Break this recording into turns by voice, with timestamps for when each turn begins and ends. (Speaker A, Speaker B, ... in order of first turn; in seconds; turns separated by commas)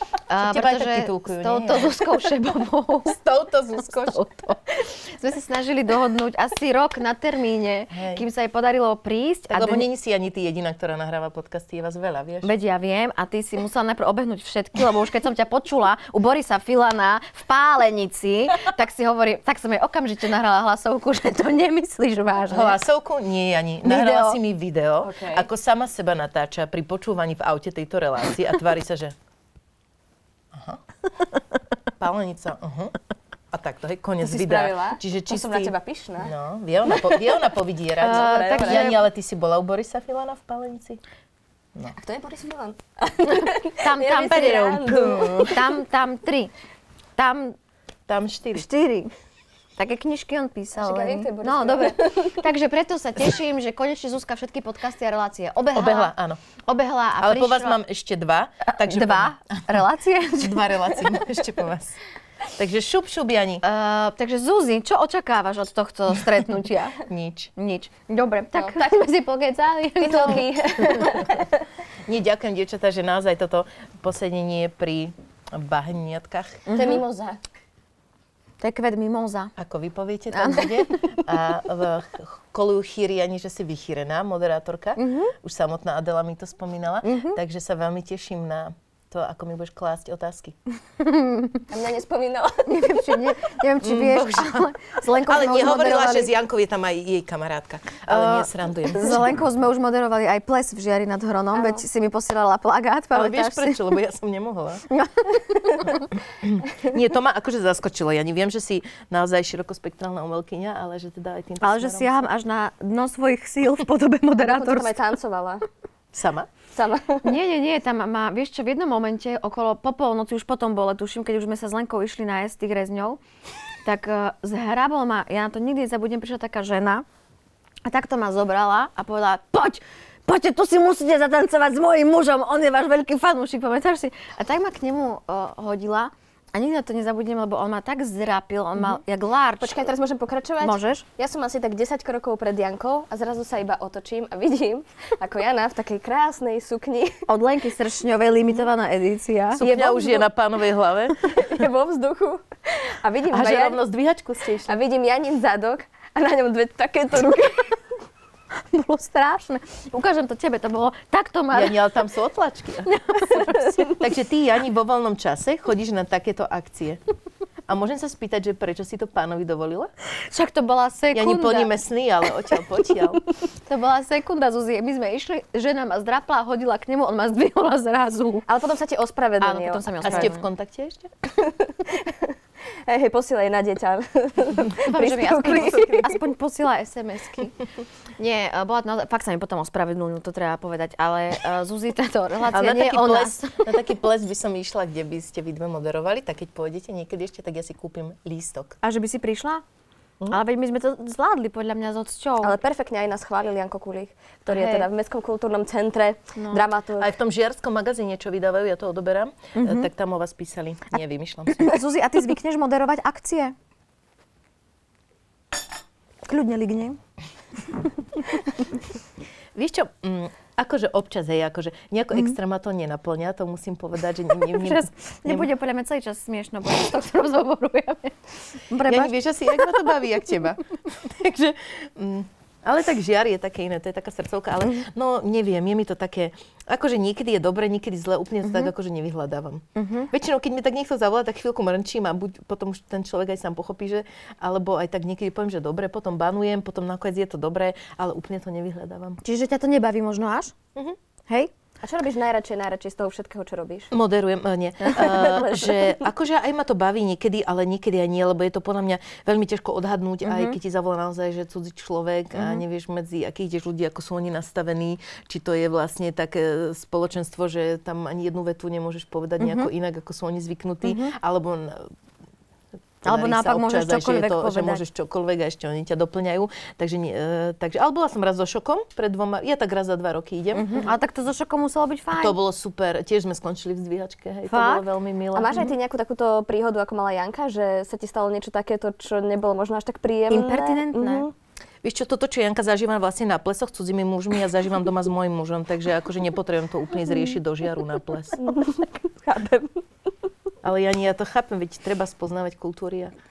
Speaker A: 0.3-3.2, Speaker B: 0.4-2.3, Speaker B: 3.0-4.2, Speaker A: 3.8-9.9, Speaker B: 7.9-8.2, Speaker B: 9.5-12.5, Speaker A: 12.4-22.8, Speaker B: 22.5-29.1, Speaker A: 23.8-24.4, Speaker C: 25.0-25.5, Speaker B: 30.5-30.8, Speaker B: 32.0-32.9, Speaker B: 33.5-41.0, Speaker C: 34.2-36.3, Speaker C: 36.9-37.3, Speaker A: 38.0-39.0, Speaker C: 38.0-39.0, Speaker C: 41.9-45.6, Speaker A: 43.2-46.5, Speaker B: 44.8-45.6, Speaker A: 47.2-47.5, Speaker B: 48.1-48.7, Speaker A: 48.5-49.1, Speaker A: 49.8-56.1, Speaker C: 50.7-52.4, Speaker B: 55.7-56.4, Speaker A: 56.7-57.8, Speaker B: 57.2-59.6, Speaker A: 58.6-60.8, Speaker B: 60.4-62.0, Speaker B: 62.5-63.6, Speaker A: 63.6-67.0, Speaker B: 67.0-67.5, Speaker A: 67.5-71.1, Speaker C: 68.6-69.1, Speaker C: 70.0-71.6, Speaker B: 72.0-76.6, Speaker A: 76.7-77.0, Speaker C: 76.7-77.4, Speaker A: 78.6-79.5, Speaker B: 79.6-90.5, Speaker A: 80.3-80.9, Speaker A: 85.0-85.3, Speaker A: 87.0-87.4, Speaker A: 91.0-91.6, Speaker C: 91.7-93.3, Speaker A: 92.7-96.3, Speaker B: 93.8-99.4, Speaker A: 98.1-104.0, Speaker C: 101.5-101.8, Speaker B: 103.1-104.8, Speaker A: 104.9-106.0, Speaker B: 106.4-112.2, Speaker A: 111.6-114.9, Speaker C: 114.4-115.6, Speaker B: 116.1-116.5, Speaker C: 116.7-117.2, Speaker A: 117.2-123.2, Speaker A: 123.8-127.0, Speaker A: 127.8-139.8, Speaker C: 139.6-147.2, Speaker A: 140.6-141.0, Speaker A: 147.3-150.2, Speaker B: 149.5-151.7, Speaker C: 151.2-153.8, Speaker B: 153.3-154.8, Speaker C: 154.6-157.8, Speaker A: 158.7-161.8, Speaker B: 161.5-167.0, Speaker A: 162.8-163.9, Speaker B: 167.7-169.9, Speaker A: 170.3-171.7, Speaker B: 171.1-173.2, Speaker A: 173.7-178.5, Speaker C: 178.5-180.3, Speaker A: 179.4-180.4, Speaker B: 180.0-181.1, Speaker C: 181.3-182.3, Speaker C: 182.8-186.1, Speaker A: 184.8-187.6, Speaker B: 185.5-186.1, Speaker A: 188.2-193.8, Speaker B: 192.5-198.8, Speaker A: 198.8-199.6, Speaker A: 200.3-202.6, Speaker C: 202.4-207.1, Speaker A: 204.5-204.9, Speaker A: 206.3-206.7, Speaker B: 207.0-211.8, Speaker A: 209.5-209.9, Speaker A: 211.5-213.5, Speaker A: 216.2-217.0, Speaker B: 219.6-225.5, Speaker A: 224.5-228.1, Speaker A: 228.7-229.7, Speaker B: 228.8-249.2, Speaker A: 239.8-240.1, Speaker A: 249.2-250.5, Speaker C: 251.8-253.9, Speaker B: 253.9-271.9, Speaker C: 254.9-256.0, Speaker A: 260.2-260.6, Speaker A: 262.3-262.6, Speaker A: 269.4-269.7, Speaker A: 270.8-271.1, Speaker B: 273.0-280.7, Speaker A: 273.0-274.8, Speaker A: 280.5-282.4, Speaker B: 282.1-285.7, Speaker A: 284.5-284.9, Speaker C: 285.3-291.3, Speaker A: 290.3-291.2, Speaker B: 291.8-298.4, Speaker C: 298.4-299.8, Speaker B: 300.6-303.1